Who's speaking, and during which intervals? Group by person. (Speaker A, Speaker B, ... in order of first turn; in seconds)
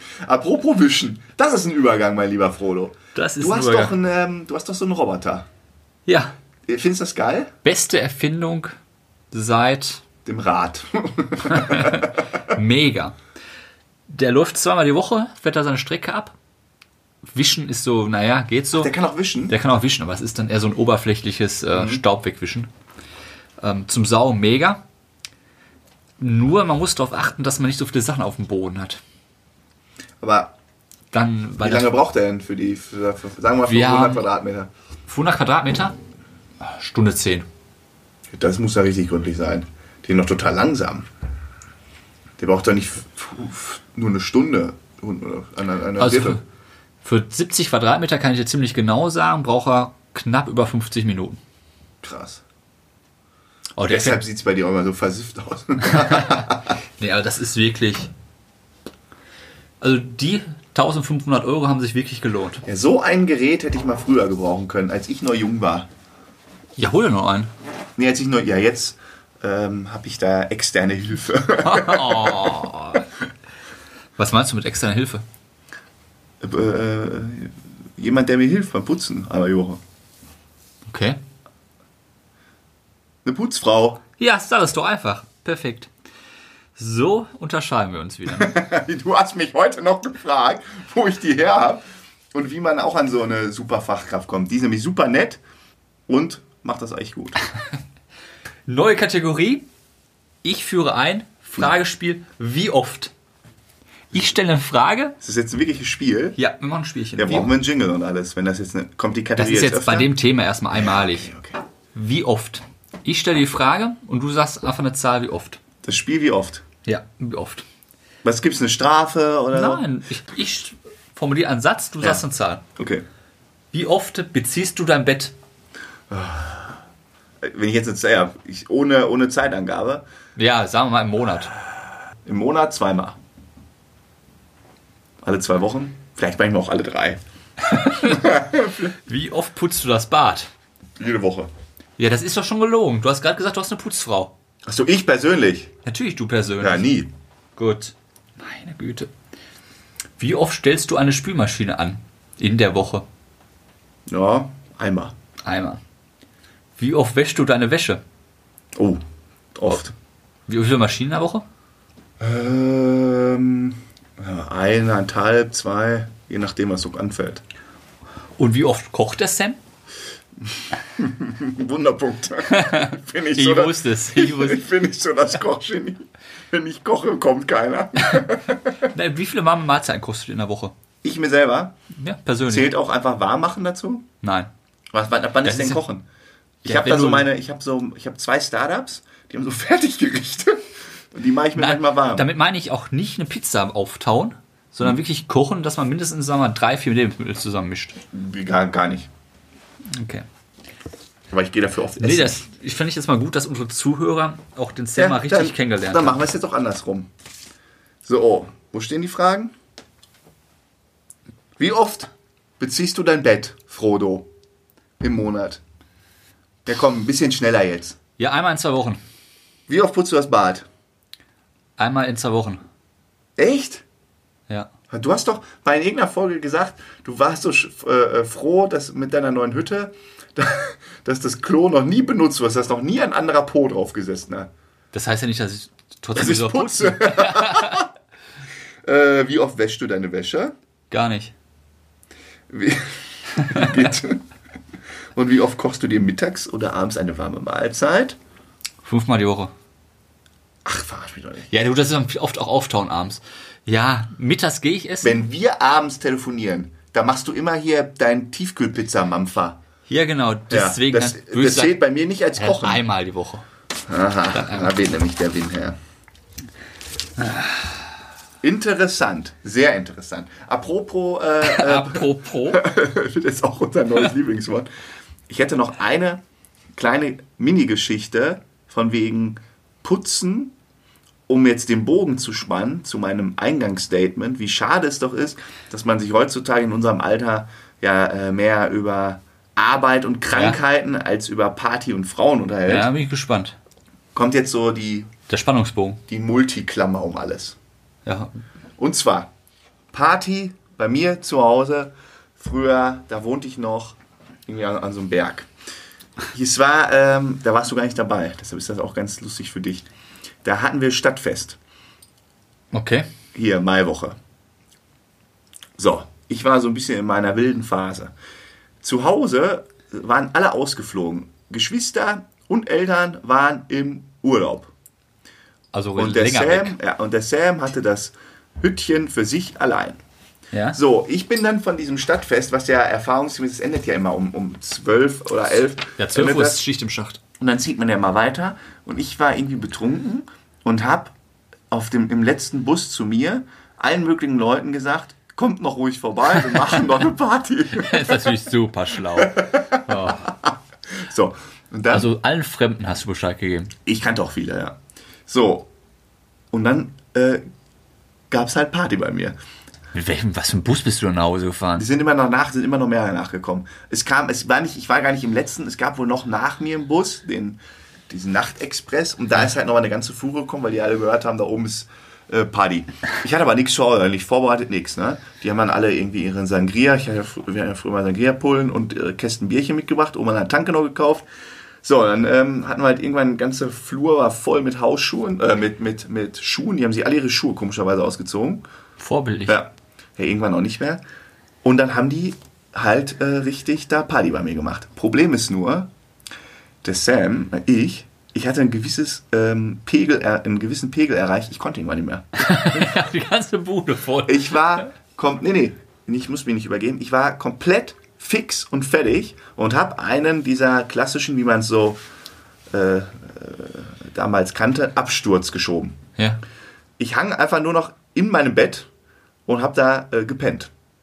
Speaker A: 0.2-5.5, 6.7-7.5, 10.2-12.5, 18.8-19.6, 21.7-22.0, 30.2-30.5, 31.6-34.7, 38.3-41.1, 42.4-46.4, 52.0-52.4, 53.8-56.8, 62.6-65.9, 68.0-73.0, 76.4-79.8, 83.2-84.0, 88.3-91.8, 92.3-95.4, 96.1-97.4, 105.2-106.4, 107.2-110.1, 110.8-111.6, 115.8-116.6, 118.2-119.8, 122.8-123.0, 126.1-126.8, 127.4-130.0, 132.2-133.2, 135.2-138.9, 141.0-141.5, 144.7-145.7, 146.6-147.1, 154.1-155.1, 158.8-159.0, 159.6-159.9, 162.2-167.4, 170.6-178.9, 181.0-181.8, 182.5-184.1, 184.9-186.1, 186.6-192.3, 198.1-199.1, 201.3-202.4, 205.0-207.1, 208.1-209.5, 211.6-214.3, 215.0-215.6, 216.7-218.0, 219.7-220.7, 223.4-223.8, 224.9-234.5, 236.2-237.9, 238.8-240.5, 242.5-244.2, 245.2-248.2, 250.7-251.5, 255.0-259.6, 260.5-262.8, 263.9-265.8, 268.4-274.7, 275.3-276.2, 276.8-280.5, 281.3-292.9, 294.1-295.1, 296.1-297.6, 298.8-299.3, 299.9-304.0, 304.5-305.5, 306.3-309.9, 310.4-311.6, 313.4-314.2, 315.8-318.1, 318.8-324.7, 326.0-330.0, 330.7-336.6, 337.4-341.1, 341.7-348.3, 349.1-352.1, 353.9-354.8, 355.3-355.7, 356.5-357.4, 358.3-359.4, 361.8-381.3, 381.8-388.6, 389.5-391.0, 391.6-395.9, 396.8-402.9, 404.3-412.0, 412.7-416.0, 417.0-418.9, 419.5-420.7
Speaker B: 3.1-4.0, 6.1-6.3, 7.6-8.8, 9.3-10.0, 11.4-13.2, 14.1-16.4, 17.2-18.9, 19.5-22.7, 23.6-24.8, 26.2-29.0, 31.1-31.9, 33.7-34.3, 35.1-36.0, 36.6-37.5, 46.0-46.4, 47.0-51.4, 53.8-54.2, 55.8-58.1, 59.8-62.6, 66.8-67.5, 71.6-73.1, 74.2-75.2, 80.9-81.2, 84.2-85.9, 86.8-88.6, 98.7-99.7, 100.4-103.1, 104.1-105.2, 106.4-107.5, 109.4-111.3, 111.9-115.6, 116.8-117.7, 119.5-122.6, 123.7-125.3, 130.4-131.5, 137.7-140.5, 142.0-144.3, 145.8-146.9, 147.6-149.1, 150.2-153.1, 155.4-155.8, 156.8-158.0, 160.5-161.5, 168.4-169.6, 172.5-174.7, 178.1-180.7, 181.9-182.7, 184.2-184.5, 185.4-185.8, 186.7-187.3, 191.6-197.9, 199.9-200.3, 202.0-206.2, 218.2-219.0, 221.8-222.6, 234.9-237.9, 240.9-241.3, 243.4-243.9, 248.8-249.5, 251.5-255.2, 259.9-261.8, 262.4-263.4, 264.3-264.8, 267.2-267.7, 271.4-272.7, 290.3-290.6, 292.7-293.6, 295.3-296.0, 298.1-298.3, 312.7-313.1, 325.7-326.8, 330.5-330.8, 336.0-337.2, 347.7-350.3, 351.9-353.7, 359.9-361.9, 389.0-389.6, 402.4-404.8